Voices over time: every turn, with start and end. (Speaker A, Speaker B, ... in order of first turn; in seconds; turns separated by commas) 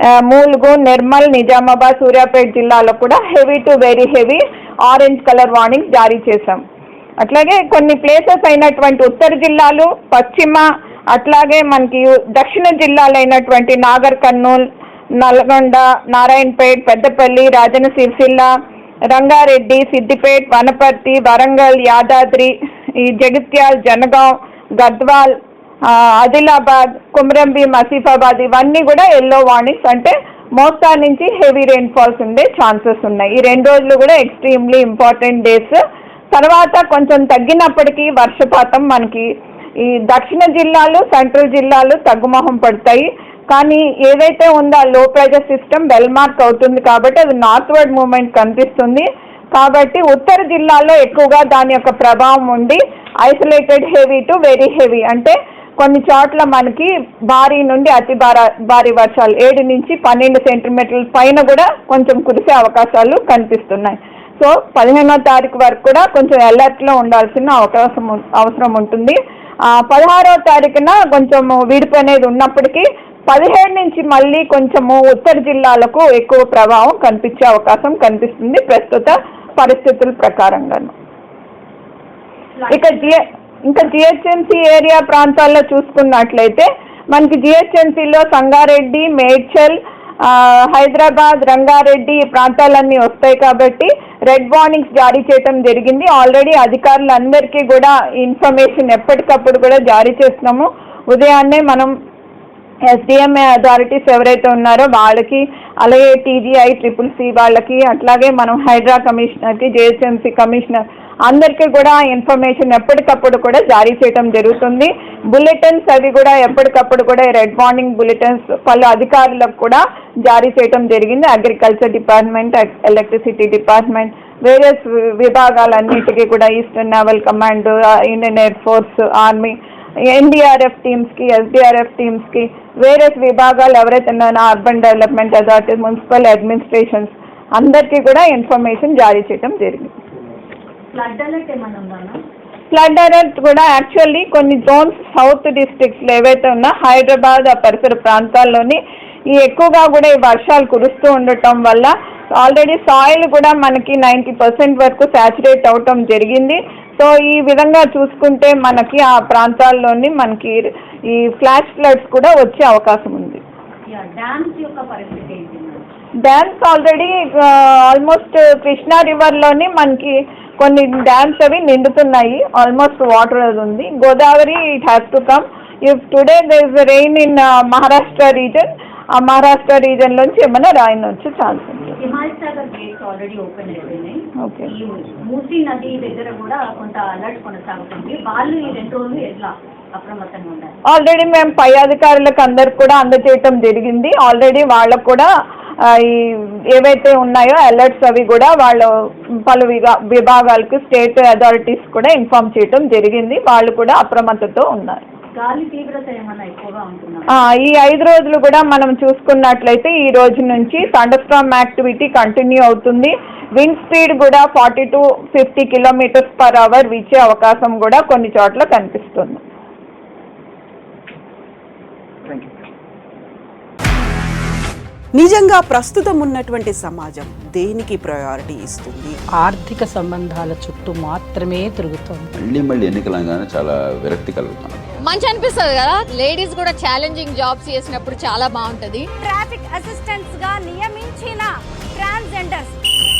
Speaker A: 0.2-6.6, Speaker A: 7.2-14.6, Speaker A: 15.2-18.5, Speaker A: 19.1-25.3, Speaker A: 25.9-35.8, Speaker A: 36.3-39.3, Speaker A: 39.9-69.2, Speaker A: 69.8-80.9, Speaker A: 82.7-101.9, Speaker A: 102.9-129.6, Speaker A: 130.1-139.9, Speaker B: 140.9-142.2, Speaker A: 142.7-148.8, Speaker A: 149.3-163.4, Speaker B: 163.9-165.8, Speaker A: 166.2-182.0, Speaker B: 182.0-190.8, Speaker A: 184.4-184.7, Speaker A: 190.9-195.3, Speaker A: 195.9-198.9, Speaker A: 199.5-205.0, Speaker B: 205.3-207.3, Speaker A: 207.4-219.4, Speaker C: 225.1-229.2, Speaker D: 229.4-232.2, Speaker E: 232.4-234.7, Speaker F: 235.0-239.1, Speaker G: 239.2-242.8